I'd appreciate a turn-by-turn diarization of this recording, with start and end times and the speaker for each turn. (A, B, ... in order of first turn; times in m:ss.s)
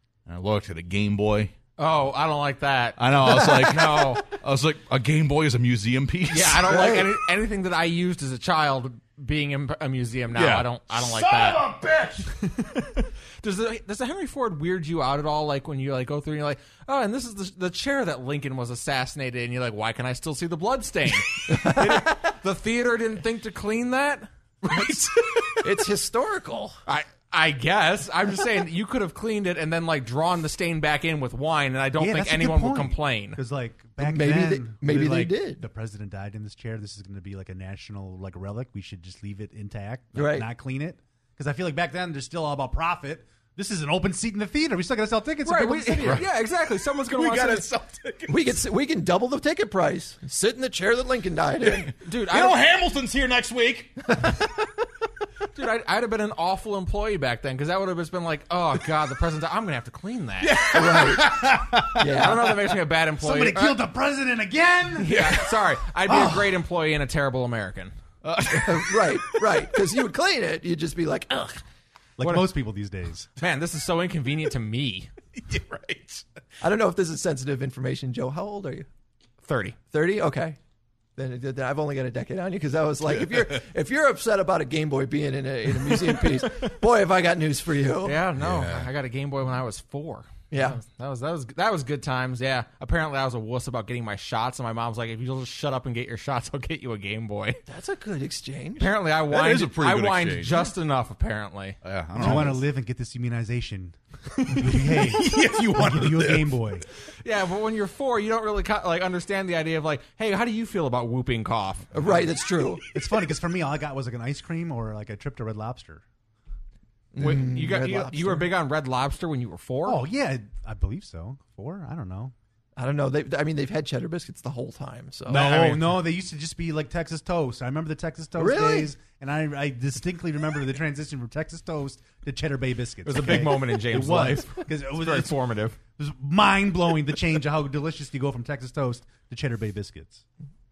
0:00.3-0:01.5 A
0:01.8-0:04.2 B
0:03.0-0:07.0 A
0:06.3-0:11.7 B
0:06.6-0:07.1 C
0:10.3-0:12.3 A
0:12.3-0:25.1 B
0:21.5-0:22.2 C
0:24.7-0:25.7 A
0:25.6-0:26.8 C
0:26.9-0:33.4 B
0:32.0-0:46.2 D
0:34.0-0:35.6 C
0:40.1-0:40.4 C
0:45.4-0:47.7 B
0:46.0-0:46.3 A
0:47.1-0:48.6 A
0:48.3-0:51.9 C
0:51.6-0:54.0 A
0:52.0-0:52.6 B
0:55.5-1:00.6 B
1:00.4-1:02.0 A
1:00.7-1:01.4 C
1:01.7-1:02.0 D
1:02.0-1:02.6 C
1:02.0-1:03.8 B
1:03.2-1:05.3 D
1:05.0-1:07.9 B
1:05.1-1:05.4 A
1:06.1-1:06.3 D
1:08.2-1:09.4 A
1:08.5-1:11.6 C
1:12.2-1:13.3 D
1:12.2-1:12.5 B
1:13.4-1:15.1 B
1:15.4-1:16.2 A
1:16.6-1:18.8 C
1:19.4-1:19.8 B
1:19.9-1:20.6 C
1:21.2-1:28.2 C
1:28.0-1:37.6 B
1:28.4-1:28.9 A
1:30.5-1:30.8 C
1:37.7-1:38.9 C
1:38.8-1:41.8 B
1:39.2-1:40.7 A
1:41.8-1:42.6 A
1:42.2-1:46.8 D
1:42.2-1:42.5 C
1:45.0-1:46.6 A
1:47.2-1:52.0 B
1:51.9-1:52.8 C
1:52.9-1:56.0 D
1:57.1-1:58.5 C
1:57.2-2:00.0 B
1:59.8-2:02.3 D
2:02.8-2:05.7 C
2:05.3-2:15.3 D
2:05.3-2:05.8 B
2:08.4-2:08.9 C
2:13.0-2:15.8 B
2:16.0-2:20.2 D